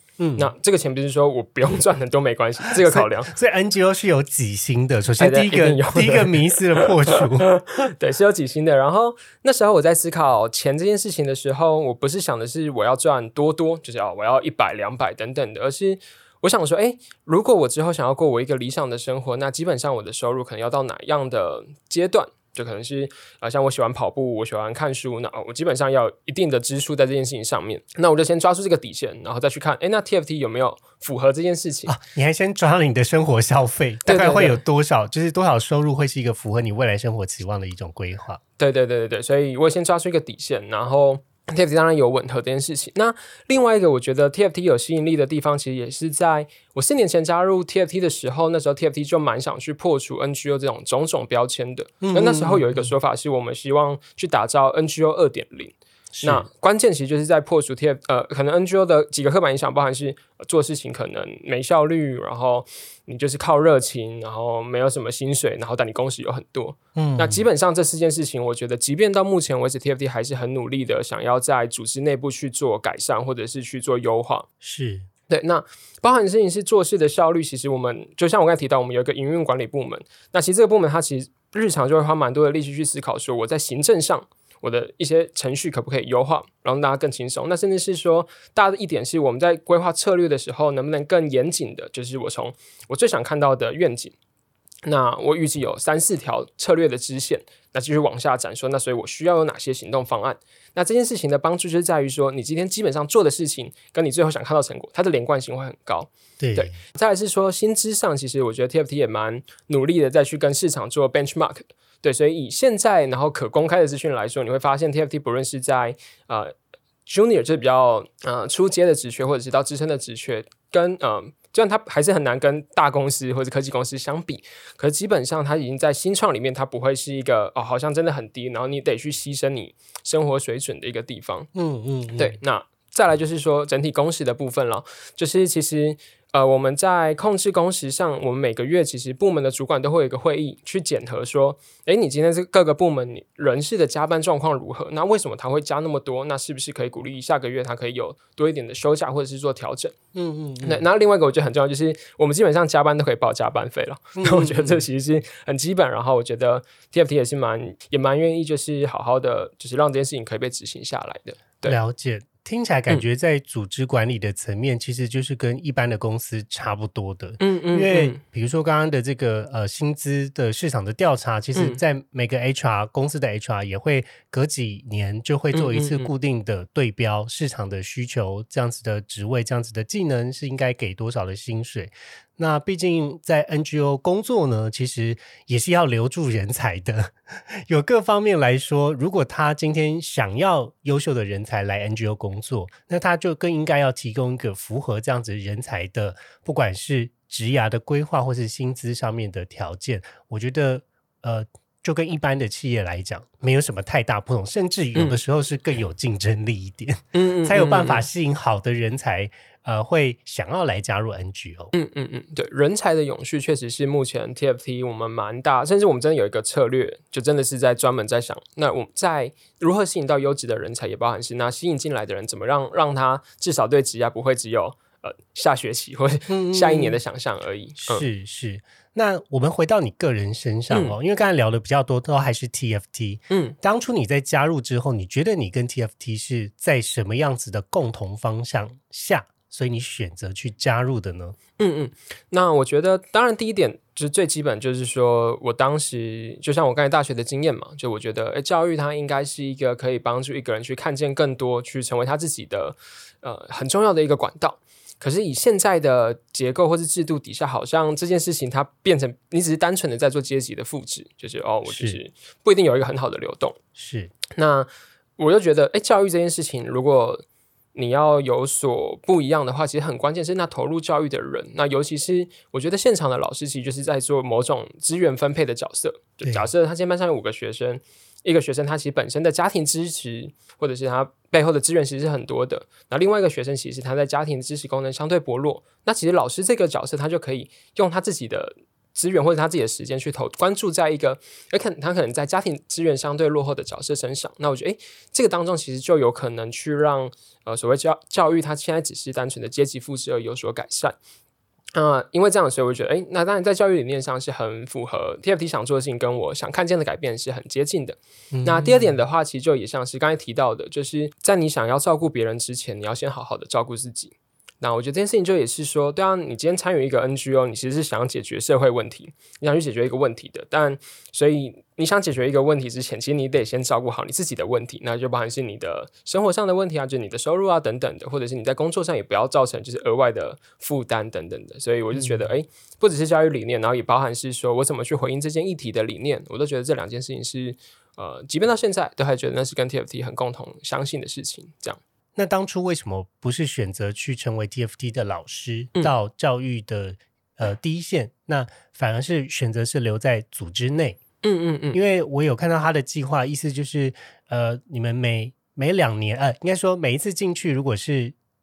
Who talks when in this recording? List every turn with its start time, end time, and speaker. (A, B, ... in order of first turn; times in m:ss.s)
0:00.2-0:00.5 A
0:00.4-0:03.3 B
0:02.7-0:07.5 A
0:05.2-0:31.9 B
0:31.9-0:38.4 A
0:34.0-0:34.6 B
0:38.6-1:14.5 B
0:52.0-0:52.9 A
0:56.1-0:56.5 A
1:07.0-1:07.4 A
1:14.6-1:15.1 A
1:15.3-1:34.1 B
1:34.8-1:56.5 B
1:46.4-1:46.8 A
1:57.0-2:11.5 B
2:11.5-2:12.4 A
2:12.2-2:30.0 B
2:30.1-2:30.8 A
2:30.6-2:41.8 B
2:34.2-2:34.8 A
2:41.6-3:31.7 A
2:47.4-2:48.2 B
2:55.5-2:56.1 B
3:27.1-3:28.0 B
3:31.7-3:48.0 B
3:46.3-3:47.0 A
3:47.8-4:01.4 A
3:53.3-3:53.6 B
4:01.6-4:23.6 B
4:21.7-4:22.0 A
4:23.8-4:24.1 A
4:24.3-5:01.0 B
4:36.2-4:36.5 A
5:01.7-5:41.8 B
5:08.3-5:09.0 A
5:31.9-5:32.2 A
5:42.2-5:51.0 A
5:51.2-5:51.8 B
5:51.7-5:58.1 A